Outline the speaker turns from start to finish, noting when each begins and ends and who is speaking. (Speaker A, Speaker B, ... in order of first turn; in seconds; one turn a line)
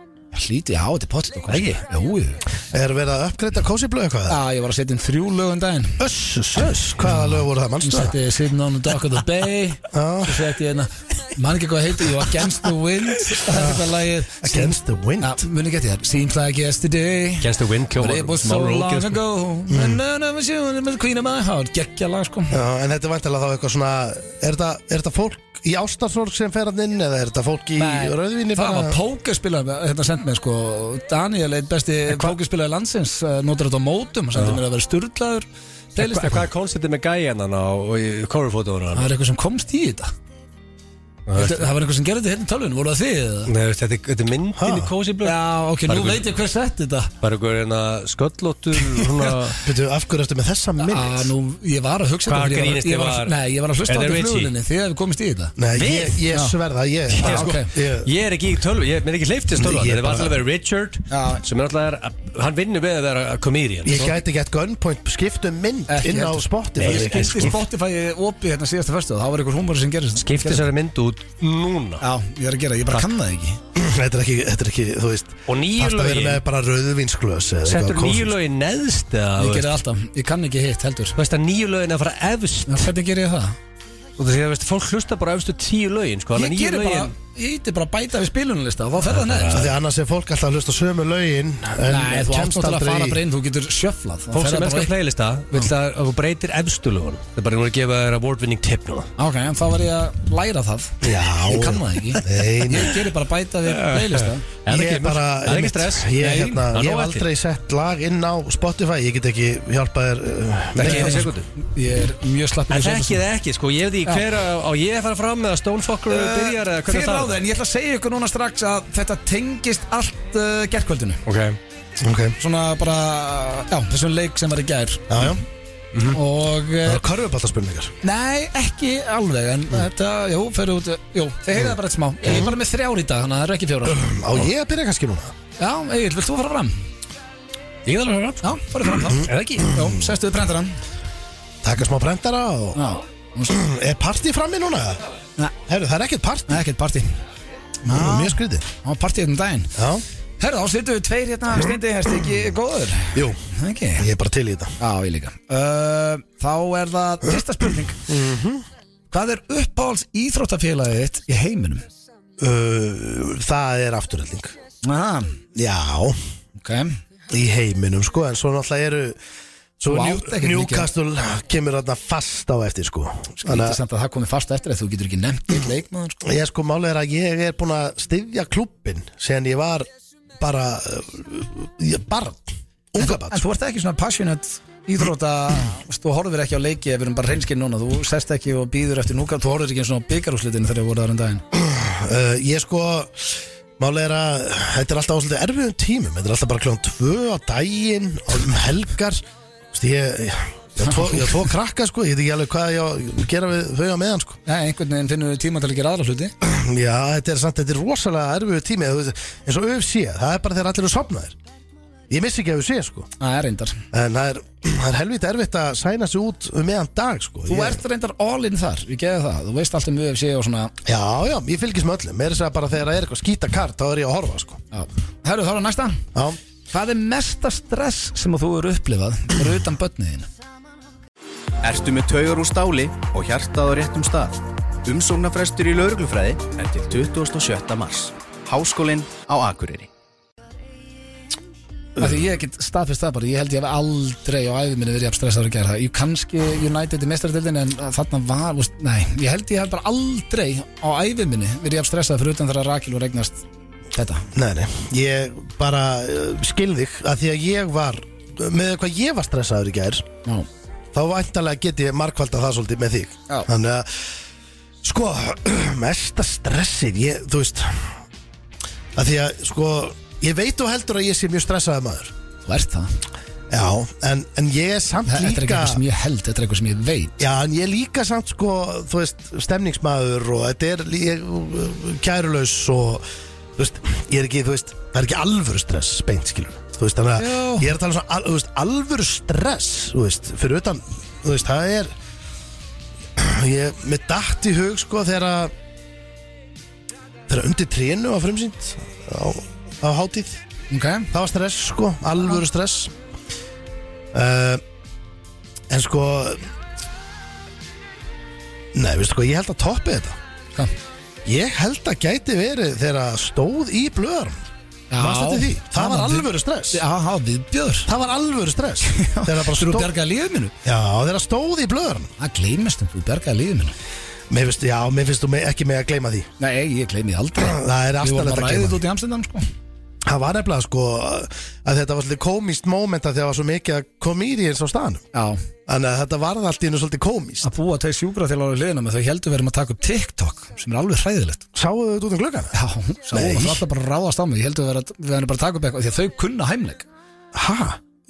Speaker A: 0.3-2.4
Speaker B: 1.5-1.8
Speaker C: 2.7-4.4
Speaker A: 4.3-6.0
Speaker C: 6.0-8.2
Speaker A: 7.0-22.6
Speaker C: 9.9-10.5
Speaker C: 13.5-13.8
Speaker C: 14.4-15.4
Speaker B: 17.4-19.2
Speaker C: 19.7-20.0
Speaker C: 22.5-29.0
Speaker A: 27.8-36.4
Speaker B: 32.1-32.3
Speaker B: 34.3-34.6
Speaker B: 36.0-39.1
Speaker A: 38.9-40.1
Speaker B: 41.3-41.7
Speaker A: 41.3-43.5
Speaker B: 43.5-46.3
Speaker C: 44.6-44.9
Speaker A: 45.2-47.1
Speaker B: 47.2-49.6
Speaker C: 49.6-51.3
Speaker A: 50.8-55.5
Speaker B: 52.2-54.5
Speaker C: 55.6-58.1
Speaker B: 55.7-56.2
Speaker A: 56.3-56.5
Speaker B: 57.1-64.1
Speaker A: 57.2-57.7
Speaker C: 59.5-60.4
Speaker A: 61.1-61.4
Speaker C: 63.8-67.5
Speaker A: 65.9-70.7
Speaker B: 66.8-67.6
Speaker B: 70.2-72.0
Speaker A: 72.0-73.6
Speaker C: 73.7-78.3
Speaker B: 75.5-76.4
Speaker B: 77.7-79.7
Speaker A: 79.4-81.2
Speaker B: 81.2-82.9
Speaker A: 82.7-83.6
Speaker B: 84.2-87.1
Speaker A: 86.3-89.7
Speaker B: 89.1-89.6
Speaker C: 89.5-93.2
Speaker A: 91.8-94.9
Speaker B: 94.3-99.1
Speaker A: 99.2-104.5
Speaker C: 101.0-103.0
Speaker B: 103.6-107.2
Speaker C: 104.7-111.3
Speaker A: 106.2-106.6
Speaker B: 110.8-111.5
Speaker A: 110.8-113.2
Speaker B: 112.7-117.4
Speaker A: 116.1-121.2
Speaker B: 121.2-121.6
Speaker C: 122.0-122.3
Speaker A: 122.4-125.3
Speaker C: 125.1-125.4
Speaker A: 126.1-127.0
Speaker C: 126.8-127.9
Speaker A: 128.0-134.1
Speaker C: 133.8-135.3
Speaker A: 135.6-136.8
Speaker B: 137.8-138.4
Speaker A: 138.4-140.8
Speaker B: 139.1-139.7
Speaker C: 141.6-142.8
Speaker A: 142.7-143.6
Speaker C: 143.5-145.0
Speaker C: 145.7-146.6
Speaker A: 146.5-147.2
Speaker A: 147.8-149.7
Speaker C: 147.8-148.7
Speaker C: 149.8-150.0
Speaker A: 150.4-154.1
Speaker C: 153.1-153.4
Speaker C: 154.0-154.7
Speaker A: 154.8-158.0
Speaker C: 158.1-158.6
Speaker A: 159.1-161.8
Speaker C: 162.4-164.5
Speaker A: 164.8-165.4
Speaker C: 165.5-166.2
Speaker A: 166.6-167.0
Speaker C: 167.3-169.2
Speaker C: 169.8-173.8
Speaker A: 169.8-170.9
Speaker A: 173.4-176.2
Speaker C: 176.2-183.4
Speaker A: 183.0-191.4
Speaker C: 191.5-204.4
Speaker A: 200.8-201.2
Speaker A: 204.4-206.3
Speaker C: 206.4-211.3
Speaker C: 212.1-213.1
Speaker A: 213.2-213.8
Speaker C: 213.9-217.8
Speaker A: 217.5-220.7
Speaker C: 220.8-224.6
Speaker A: 224.7-226.1
Speaker A: 226.7-230.3
Speaker D: 231.6-239.9
Speaker C: 242.0-242.2
Speaker A: 242.0-253.4
Speaker A: 253.9-254.3
Speaker C: 254.3-260.1
Speaker C: 260.9-264.2
Speaker C: 264.8-268.0
Speaker C: 268.9-272.1
Speaker A: 272.4-272.9
Speaker C: 273.5-275.8
Speaker A: 275.1-277.2
Speaker C: 277.2-283.0
Speaker C: 283.6-291.9
Speaker A: 287.2-287.7
Speaker C: 293.1-295.5
Speaker C: 297.3-300.4
Speaker A: 300.7-301.1
Speaker C: 301.1-302.9
Speaker C: 304.1-304.6
Speaker C: 305.7-306.4
Speaker C: 308.7-310.2
Speaker C: 311.2-314.4
Speaker A: 314.9-317.9
Speaker C: 314.9-316.8
Speaker C: 317.9-319.9
Speaker A: 318.9-320.5
Speaker C: 320.6-322.1
Speaker A: 322.2-323.7
Speaker C: 324.3-326.3
Speaker A: 326.4-329.4
Speaker C: 327.4-328.8
Speaker C: 330.1-335.0
Speaker A: 335.1-335.4
Speaker C: 335.7-337.5
Speaker A: 337.4-341.4
Speaker C: 341.5-342.5
Speaker A: 342.5-346.9
Speaker C: 343.1-343.6
Speaker C: 347.3-347.8